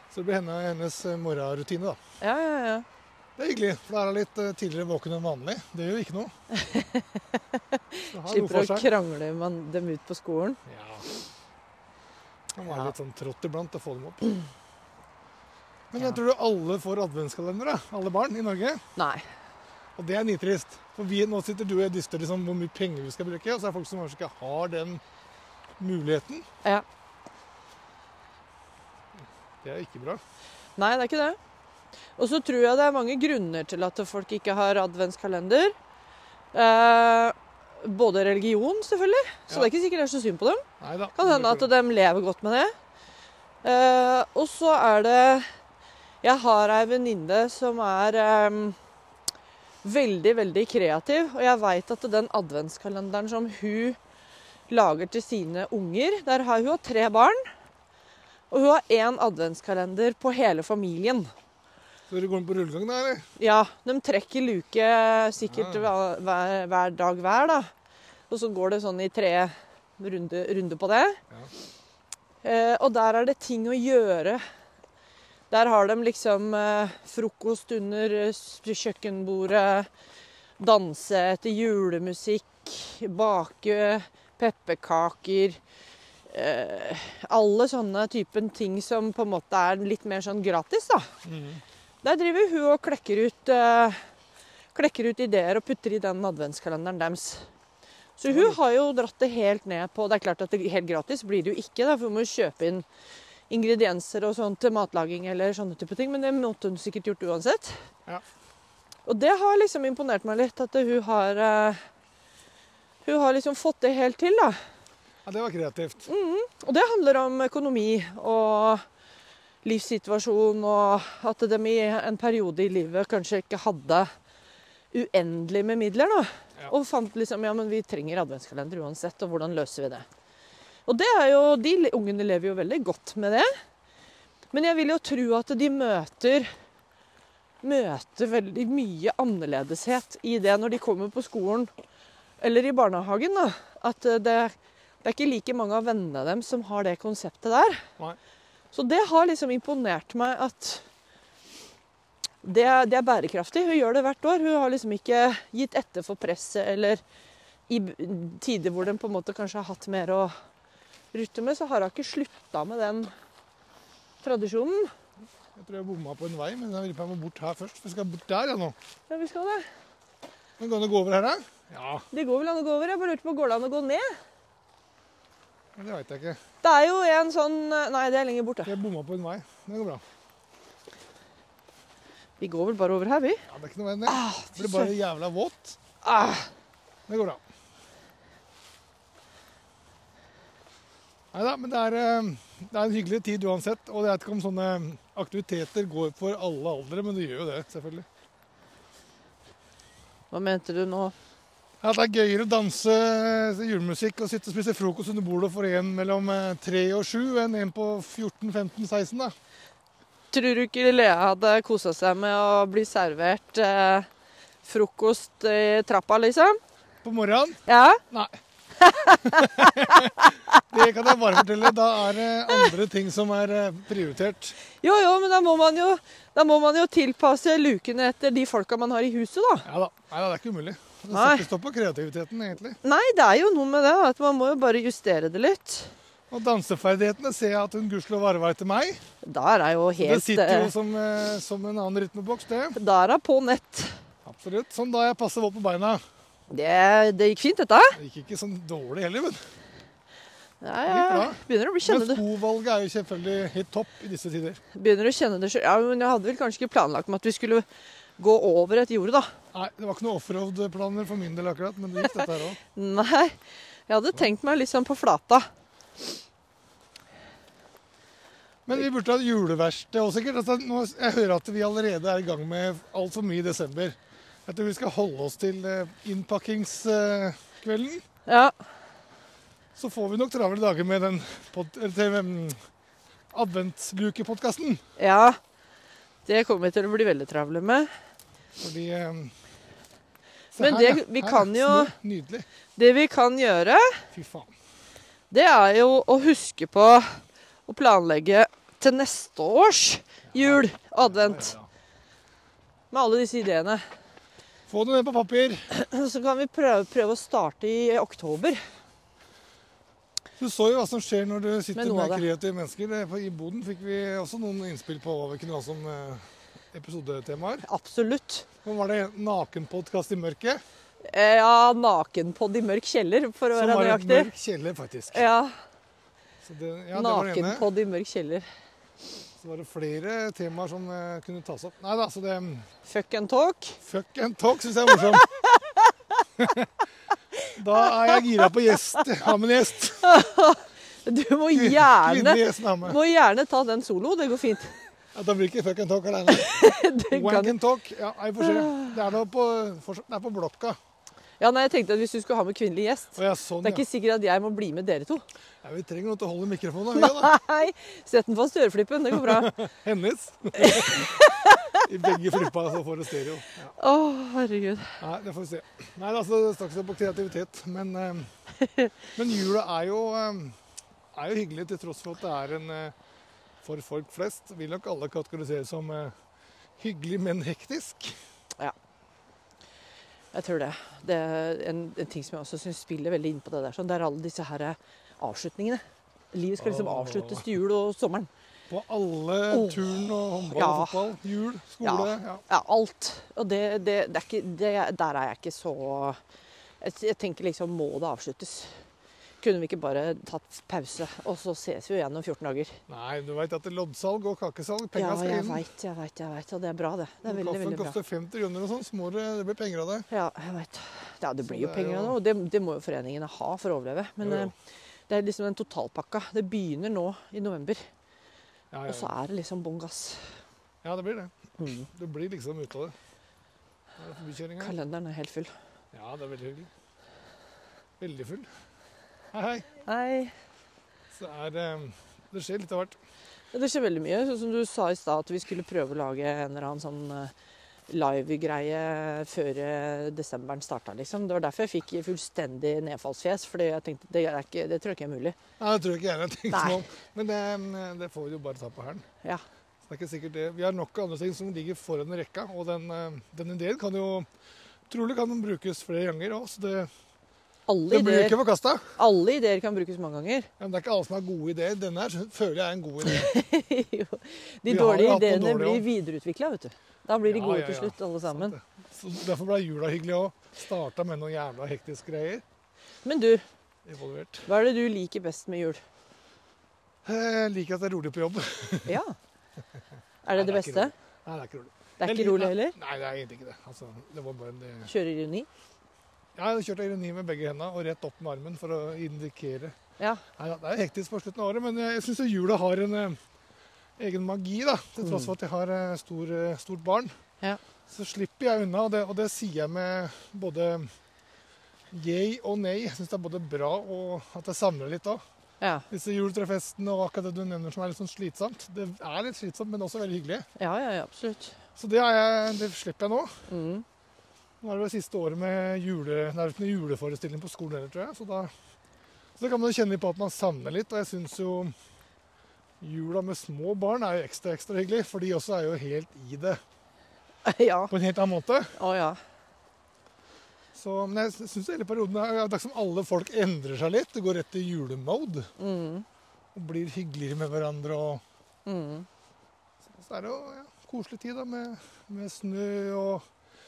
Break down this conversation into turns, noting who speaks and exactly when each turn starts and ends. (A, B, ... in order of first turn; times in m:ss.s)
0:00.1-0:02.0 A
0:02.2-0:02.8 B
0:03.4-0:06.3 A
0:06.5-0:10.6 B
0:08.1-0:08.9 A
0:10.6-0:11.0 A
0:12.5-0:14.5 A
0:15.9-0:18.8 A
0:19.0-0:19.2 B
0:20.0-0:25.0 A
0:25.8-0:26.4 A
0:29.6-0:30.2 A
0:30.8-0:31.4 B
0:32.2-0:35.8 B
0:36.5-0:40.6 B
0:40.8-0:41.7 A
0:41.2-0:42.7 B
0:43.6-0:45.5 B
0:46.2-0:48.8 B
0:49.8-0:54.0 B
0:54.7-0:57.4 B
0:58.5-1:01.3 B
1:02.1-1:03.2 A
1:03.4-1:07.7 B
1:05.4-1:05.9 A
1:08.3-1:11.2 B
1:12.4-1:14.4 B
1:15.5-1:19.9 B
1:20.6-1:25.6 B
1:26.3-1:31.1 B
1:31.2-1:31.6 A
1:32.0-1:34.0 B
1:34.7-1:37.4 B
1:38.2-1:42.9 B
1:38.3-1:38.6 A
1:43.5-1:47.8 B
1:49.0-1:51.8 B
1:53.0-1:54.6 B
1:55.2-1:56.1 A
1:56.1-1:58.8 B
1:59.6-2:04.1 B
2:04.9-2:10.0 B
2:10.9-2:13.5 B
2:14.5-2:16.5 B
2:17.6-2:21.7 B
2:22.4-2:27.8 B
2:28.7-2:30.8 B
2:32.4-2:37.0 B
2:37.7-2:40.3 B
2:41.1-2:43.1 B
2:44.2-2:44.9 B
2:45.5-2:48.8 A
2:49.1-2:49.6 B
2:50.6-2:52.0 A
2:52.1-2:54.2 B
2:55.8-2:56.4 A
2:56.6-2:58.8 B
2:58.6-3:00.0 A
3:02.4-3:03.4 B
3:03.5-3:05.8 A
3:04.1-3:04.9 B
3:06.0-3:06.5 B
3:07.1-3:07.4 A
3:11.3-3:18.0 A
3:20.3-3:21.1 B
3:21.8-3:29.3 A
3:30.3-3:34.1 B
3:34.6-3:36.6 B
3:37.0-3:38.4 A
3:37.7-3:38.0 B
3:38.8-3:40.6 B
3:39.2-3:44.6 A
3:44.8-3:49.6 B
3:49.6-3:52.8 A
3:51.1-3:51.5 B
3:52.8-3:55.9 B
3:56.3-3:59.0 A
3:59.2-4:00.7 B
4:00.0-4:02.8 A
4:02.8-4:04.0 B
4:04.2-4:06.0 A
4:06.5-4:08.0 B
4:08.0-4:09.4 A
4:10.6-4:12.2 B
4:10.9-4:14.6 A
4:14.7-4:17.6 B
4:18.2-4:19.3 B
4:19.5-4:22.6 A
4:22.8-4:23.4 B
4:23.9-4:25.5 B
4:28.6-4:38.0 A
4:38.2-4:38.5 B
4:39.8-4:42.6 A
4:43.3-4:44.8 A
4:45.0-4:45.4 B
4:46.2-4:47.9 B
4:48.6-4:49.3 A
4:50.5-4:52.5 A
4:50.6-4:51.9 B
4:52.8-4:54.0 B
4:54.1-4:54.5 A
4:55.3-5:01.5 B
5:00.3-5:01.7 A
5:02.9-5:03.8 B
5:04.7-5:05.7 A
5:05.7-5:08.6 B
5:10.4-5:17.6 A
5:11.8-5:12.3 B
5:17.6-5:18.5 B
5:18.6-5:20.6 A
5:21.1-5:24.3 B
5:23.5-5:25.2 A
5:25.1-5:25.5 B
5:26.4-5:27.7 A
5:27.0-5:28.5 B
5:29.4-5:32.7 A
5:32.8-5:33.8 B
5:33.8-5:35.2 A
5:35.1-5:35.9 B
5:36.4-5:36.7 A
5:37.5-5:40.1 A
5:37.9-5:38.2 B
5:40.0-5:44.8 B
5:41.5-5:43.0 A
5:45.1-5:50.8 A
5:46.3-5:47.6 B
5:48.6-5:48.9 B
5:51.4-5:55.2 B
5:53.1-5:53.8 A
5:55.6-5:57.3 A
5:57.0-5:59.5 B
5:59.1-6:03.7 A
6:00.6-6:01.8 B
6:03.8-6:05.0 B
6:05.0-6:08.3 A
6:09.1-6:10.6 A
6:11.1-6:13.0 A
6:13.6-6:16.1 A
6:16.8-6:18.2 A
6:20.3-6:28.3 B
6:26.6-6:27.5 A
6:28.7-6:32.4 A
6:29.5-6:31.1 B
6:31.8-6:36.2 B
6:36.8-6:38.7 B
6:39.4-6:42.8 B
6:42.9-6:45.6 A
6:45.0-6:48.0 B
6:47.2-6:50.1 A
6:50.1-6:54.5 B
6:51.4-6:52.2 A
6:54.2-6:54.5 A
6:55.1-6:57.8 B
6:58.7-6:59.1 A
6:58.9-7:00.3 B
7:00.8-7:02.9 A
7:01.6-7:01.9 B
7:04.0-7:04.7 A
7:04.6-7:05.5 B
7:05.9-7:06.7 A
7:08.0-7:08.5 A
7:09.3-7:09.7 A
7:09.8-7:10.3 B
7:11.1-7:13.0 A
7:13.5-7:17.3 B
7:17.9-7:25.4 B
7:25.6-7:29.0 A
7:26.5-7:26.8 B
7:29.9-7:34.3 A
7:34.9-7:36.9 A
7:37.7-7:38.4 B
7:37.9-7:39.0 A
7:39.0-7:40.5 B
7:40.6-7:43.3 A
7:43.0-7:48.5 B
7:44.7-7:45.8 A
7:47.2-7:52.4 A
7:53.0-7:53.4 B
7:53.8-7:54.5 A
7:54.5-7:55.8 B
7:57.0-7:59.0 A
7:58.8-7:59.1 B
8:00.2-8:00.9 B
8:00.3-8:04.9 A
8:02.0-8:02.8 B
8:04.8-8:05.5 B
8:06.4-8:09.8 A
8:10.0-8:10.2 B
8:10.4-8:13.2 A
8:14.0-8:17.1 A
8:17.9-8:20.9 A
8:21.9-8:25.2 A
8:25.6-8:25.9 B
8:25.9-8:30.5 A
8:30.6-8:31.6 B
8:31.8-8:33.4 A
8:33.5-8:33.8 B
8:34.6-8:38.5 A
8:39.4-8:41.7 A
8:42.8-8:46.6 A
8:47.4-8:47.9 B
8:47.9-8:48.8 A
8:48.8-8:49.2 B
8:50.7-8:55.5 A
8:55.6-8:56.0 B
8:56.5-8:58.2 A
8:58.6-8:59.0 B
8:59.9-9:03.2 A